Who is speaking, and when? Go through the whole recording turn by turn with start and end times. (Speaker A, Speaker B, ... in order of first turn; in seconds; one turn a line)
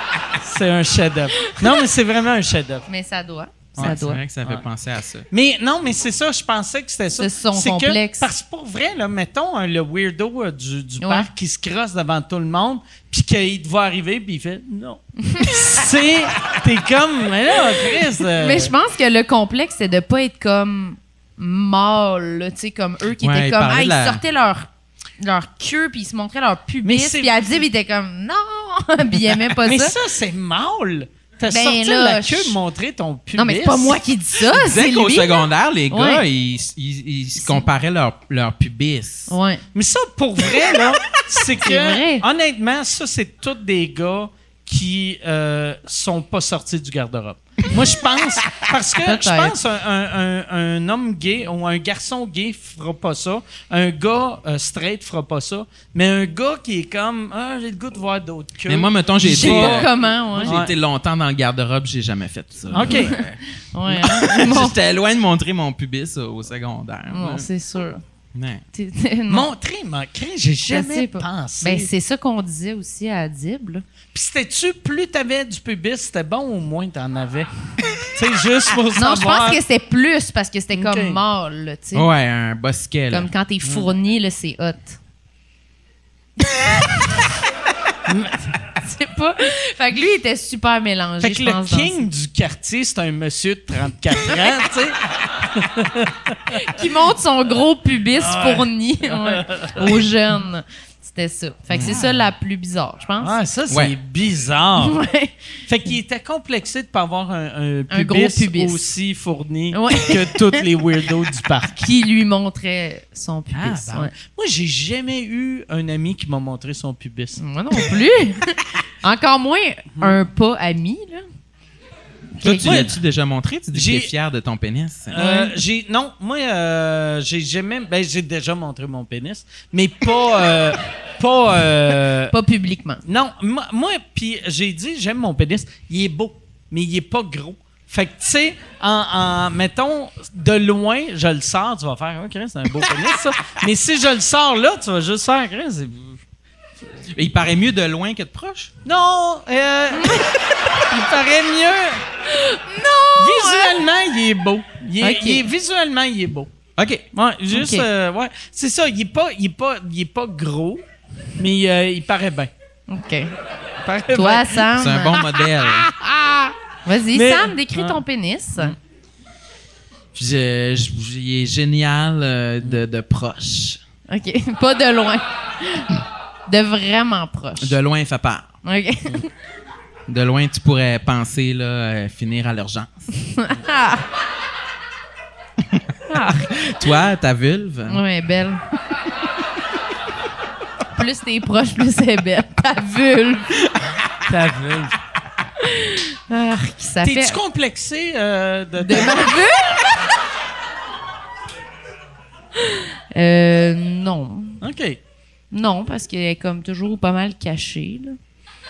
Speaker A: 0.3-2.9
Speaker B: 2.9-4.2
Speaker A: 3.8-4.6
Speaker C: 3.8-5.3
Speaker A: 5.3-18.7
Speaker B: 7.2-8.3
Speaker B: 11.0-11.3
Speaker B: 15.3-15.8
Speaker B: 18.4-29.9
Speaker C: 23.2-24.2
Speaker A: 26.8-27.5
Speaker A: 29.6-34.0
Speaker B: 31.5-32.6
Speaker B: 33.4-35.3
Speaker C: 34.4-39.3
Speaker B: 35.9-36.2
Speaker B: 37.4-37.7
Speaker B: 39.3-39.6
Speaker A: 39.7-59.9
Speaker B: 41.6-42.2
Speaker B: 49.0-49.6
Speaker C: 58.7-67.5
Speaker B: 59.2-60.6
Speaker A: 60.4-60.7
Speaker A: 62.7-63.2
Speaker B: 62.8-64.8
Speaker B: 67.1-68.0
Speaker C: 68.3-68.6
Speaker B: 68.7-69.5
Speaker A: 69.3-71.9
Speaker B: 70.7-73.8
Speaker A: 74.1-79.6
Speaker B: 79.0-82.1
Speaker A: 80.7-81.2
Speaker C: 81.9-83.3
Speaker B: 83.1-85.0
Speaker A: 83.6-83.9
Speaker A: 88.1-88.4
Speaker B: 88.8-92.0
Speaker A: 91.2-96.6
Speaker B: 96.5-103.3
Speaker A: 98.2-100.0
Speaker C: 101.7-102.0
Speaker A: 101.8-102.2
Speaker A: 103.2-105.0
Speaker B: 104.8-105.3
Speaker A: 105.7-111.9
Speaker B: 107.9-108.8
Speaker B: 109.7-110.6
Speaker B: 111.8-114.1
Speaker A: 113.5-117.4
Speaker B: 117.4-121.2
Speaker B: 122.4-122.8
Speaker C: 122.4-125.2
Speaker A: 122.6-123.0
Speaker A: 123.7-124.1
Speaker A: 125.1-132.3
Speaker B: 125.2-125.6
Speaker B: 132.3-133.0
Speaker A: 133.1-146.2
Speaker C: 147.2-148.7
Speaker A: 148.8-152.0
Speaker B: 152.3-153.8
Speaker A: 153.2-156.5
Speaker B: 155.0-155.5
Speaker C: 156.8-157.1
Speaker A: 157.1-160.8
Speaker B: 157.5-157.9
Speaker A: 161.4-162.5
Speaker B: 162.9-163.3
Speaker A: 163.8-164.7
Speaker B: 164.1-165.2
Speaker C: 164.7-165.9
Speaker A: 165.6-166.5
Speaker B: 166.8-168.8
Speaker A: 167.1-168.0
Speaker C: 170.2-173.8
Speaker B: 174.1-176.0
Speaker B: 176.5-177.8
Speaker C: 177.6-178.5
Speaker B: 178.7-179.3
Speaker C: 180.1-183.1
Speaker B: 183.3-184.1
Speaker B: 186.1-186.6
Speaker C: 186.6-188.0
Speaker B: 187.9-188.6
Speaker B: 190.9-193.6
Speaker A: 194.3-195.0
Speaker B: 195.6-197.4
Speaker A: 197.0-199.4
Speaker B: 198.8-200.2
Speaker B: 202.6-204.6
Speaker A: 204.6-205.0
Speaker B: 205.5-208.2